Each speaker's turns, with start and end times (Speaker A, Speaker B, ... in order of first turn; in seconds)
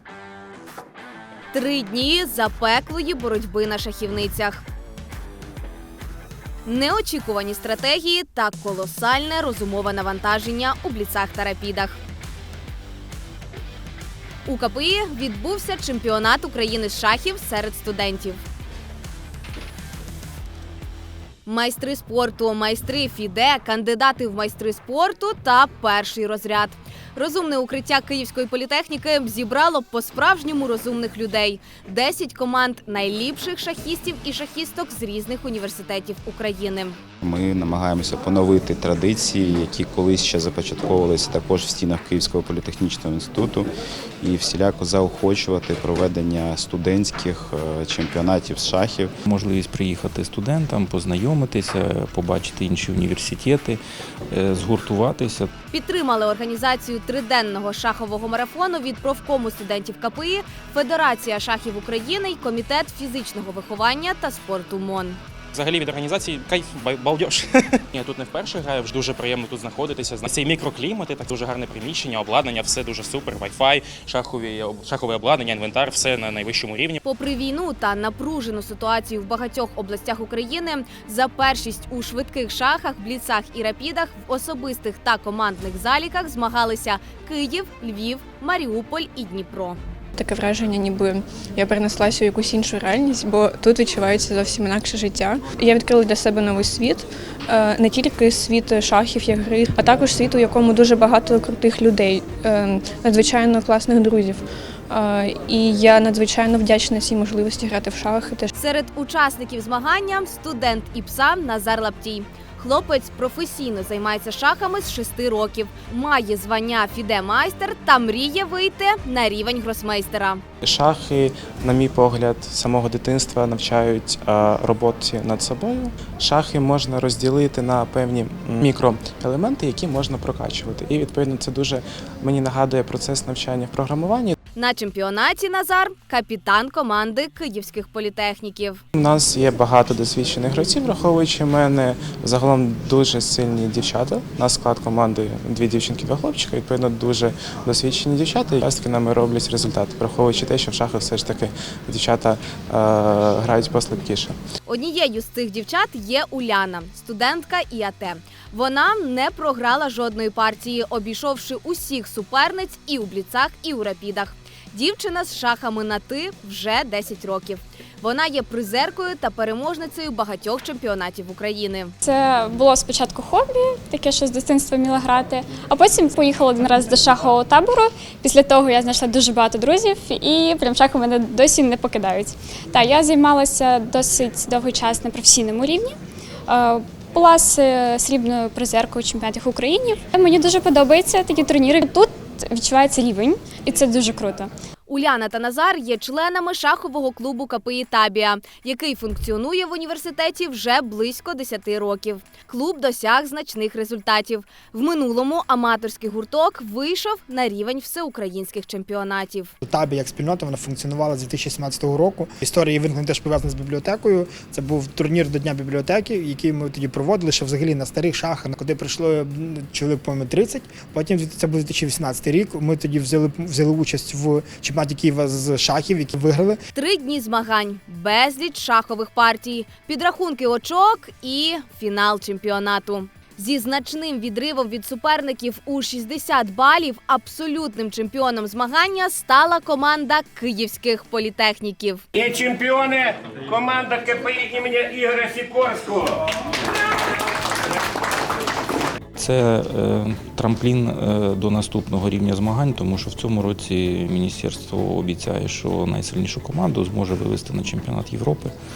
Speaker A: 1.5-4.6, 6.7-12.0, 14.4-18.4, 21.4-37.0, 55.7-65.2, 77.0-89.8, 108.6-120.4, 134.6-138.8, 154.6-171.9, 194.9-209.5, 226.7-242.0
Speaker B: 37.2-43.7, 44.2-49.1
Speaker C: 49.3-53.8, 54.3-55.5, 249.2-258.5
Speaker D: 65.5-77.0
Speaker E: 90.2-108.5
Speaker F: 120.6-134.3, 138.9-154.4
Speaker G: 172.0-185.9, 186.5-194.5
Speaker H: 209.6-226.6
Speaker I: 242.1-246.2